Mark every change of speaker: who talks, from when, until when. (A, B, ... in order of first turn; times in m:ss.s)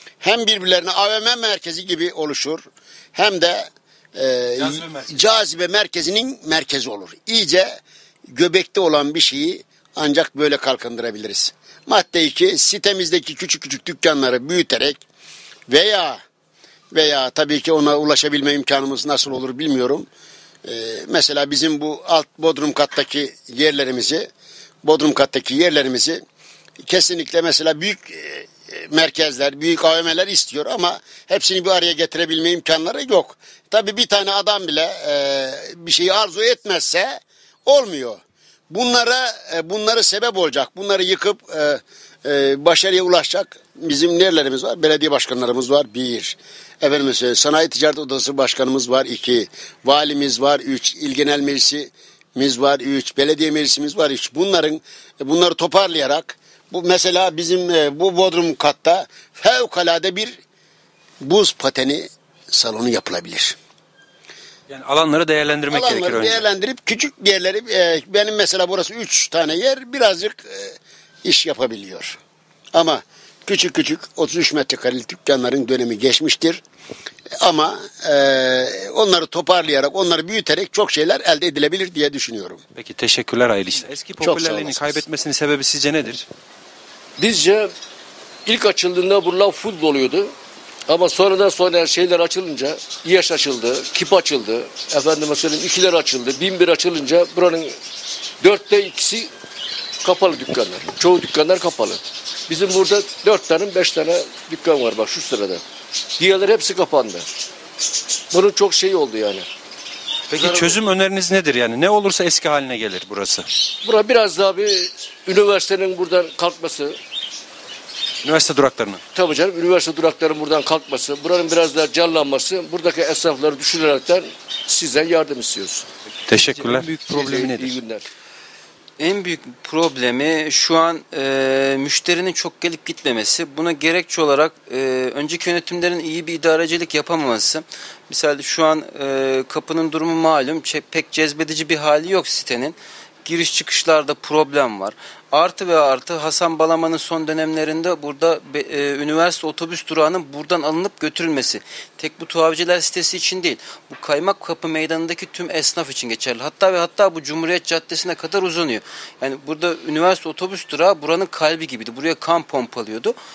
0:00.2-0:02.6 A
0:03.2-0:15.0 A
0:04.6-0:05.1 B
0:15.7-0:16.2 A
0:16.9-0:20.1 A
0:20.6-0:24.3 A
0:24.8-0:26.2 A
0:26.8-1:00.4 A
1:01.2-1:03.6 A
1:04.7-1:06.5 B
1:05.7-1:12.2 A
1:12.7-1:16.6 A
1:17.4-1:22.6 A
1:22.8-1:26.3 B
1:24.2-1:24.9 C
1:27.2-1:27.7 C
1:28.5-1:30.3 C
1:30.9-1:37.8 C
1:38.4-1:39.3 C
1:40.0-1:45.6 C
1:46.2-1:47.3 C
1:48.3-1:49.5 C
1:50.3-1:53.5 B
1:50.4-1:50.7 C
1:53.8-1:57.0 C
1:58.2-1:59.0 B
1:59.1-2:05.9 C
2:06.3-2:07.8 B
2:06.5-2:08.1 C
2:09.0-2:43.2 D